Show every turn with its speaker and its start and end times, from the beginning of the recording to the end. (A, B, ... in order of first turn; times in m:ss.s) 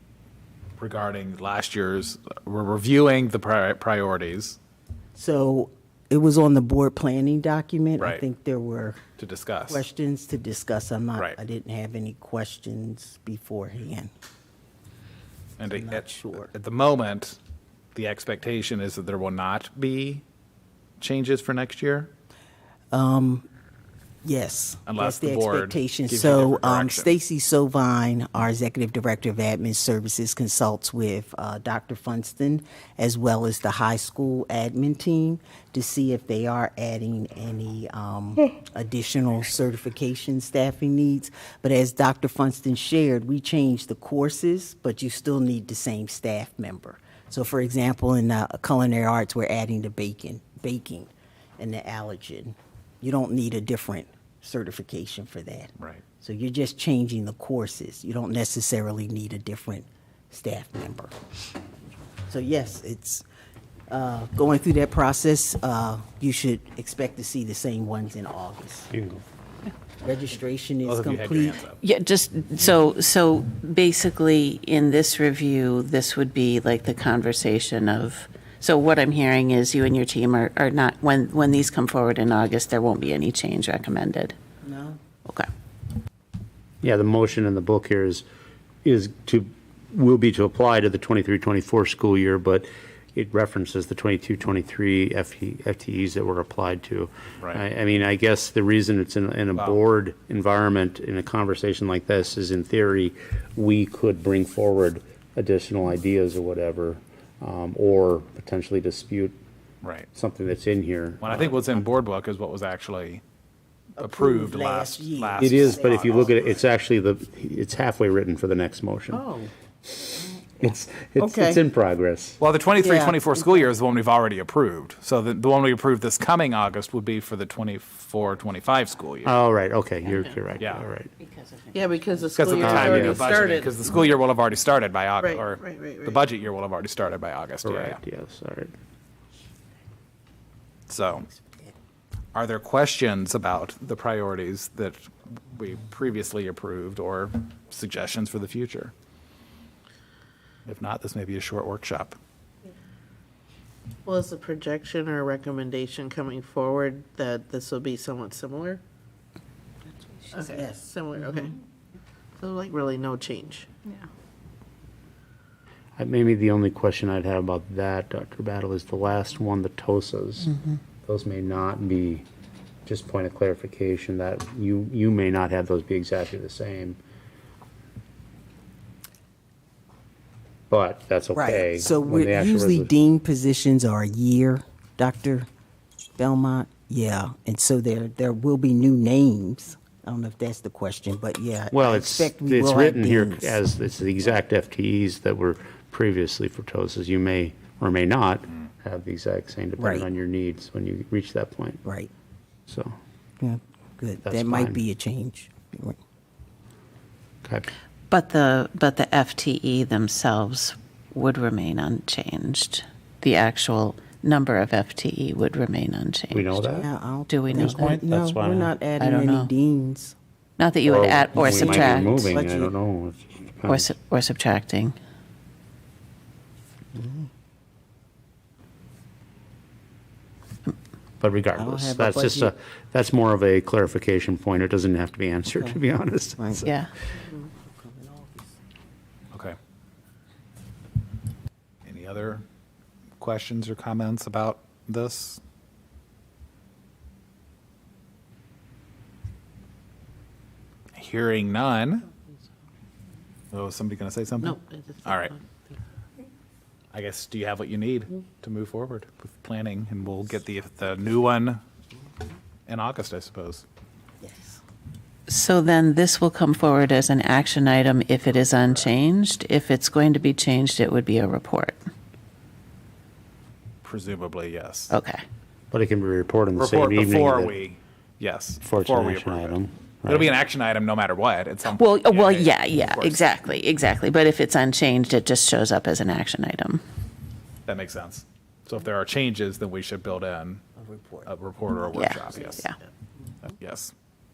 0:00.8-0:04.6 A
0:05.2-0:09.0 B
0:08.0-0:08.2 A
0:09.2-0:09.9 A
0:09.7-0:14.1 B
0:15.6-0:17.4 A
0:15.6-0:16.5 B
0:18.0-0:20.2 A
0:21.0-0:22.1 A
0:22.9-0:23.5 B
0:24.2-1:01.1 B
0:24.9-0:27.2 A
1:02.3-1:03.2 B
1:03.9-1:08.9 B
1:08.9-1:09.2 C
1:10.0-1:11.6 B
1:10.8-1:11.8 A
1:11.8-1:24.4 D
1:24.6-1:25.0 B
1:26.8-1:28.2 C
1:28.8-1:49.4 C
1:37.4-1:37.6 A
1:39.6-1:39.8 A
1:49.8-1:50.1 A
1:50.1-1:51.6 C
1:51.2-1:53.2 A
1:54.0-1:56.4 A
1:54.0-1:56.5 B
1:55.4-1:59.3 C
1:59.8-2:02.4 C
2:01.2-2:01.6 B
2:02.4-2:09.4 A
2:02.8-2:03.7 B
2:09.2-2:11.1 C
2:10.6-2:10.9 A
2:11.2-2:13.4 D
2:11.7-2:14.0 E
2:12.4-2:18.0 A
2:12.6-2:13.3 C
2:15.2-2:16.2 E
2:17.6-2:18.7 C
2:20.9-2:21.3 A
2:21.3-2:21.7 B
2:22.4-2:28.9 A
2:30.6-2:32.2 A
2:34.1-2:38.8 E
2:40.3-2:41.5 E
2:40.5-2:40.8 B
2:42.4-2:43.8 E
2:46.0-2:52.3 C
2:52.9-2:57.0 C
3:00.7-3:02.9 C
3:01.3-3:05.5 B
3:06.2-3:13.6 B
3:11.7-3:21.8 C
3:19.8-3:20.1 B
3:21.8-3:22.1 B
3:22.7-3:23.0 C
3:23.4-3:26.0 B
3:24.2-3:24.8 C
3:28.1-3:36.7 D
3:36.3-3:36.9 C
3:36.7-3:40.2 B
3:37.3-3:38.0 D
3:37.5-3:38.7 C
3:39.0-3:39.5 D
3:40.6-3:42.3 D
3:40.8-3:43.9 C
3:41.4-3:42.7 B
3:43.6-3:45.0 D
3:47.0-3:47.3 B
3:51.2-3:56.8 C
3:51.6-3:52.5 B
3:55.6-3:55.8 B
3:56.4-3:58.5 B
3:56.6-3:56.9 D
3:59.3-3:59.6 A
4:01.8-4:02.4 A
4:03.2-4:05.4 A
4:10.9-4:12.1 A
4:13.5-4:15.4 A
4:14.4-4:15.6 E
4:16.9-4:21.6 A
4:22.7-4:23.6 A
4:24.2-4:24.6 B
4:25.3-4:31.8 D
4:28.3-4:28.9 A
4:33.8-4:35.0 A
4:34.9-4:35.2 D
4:35.7-4:37.6 C
4:36.6-4:43.3 A
4:38.6-4:40.3 C
4:41.7-4:46.8 D
4:47.7-4:50.6 A
4:50.8-4:51.3 B
4:51.2-4:52.7 A
4:51.9-4:52.8 D
4:53.4-4:53.9 A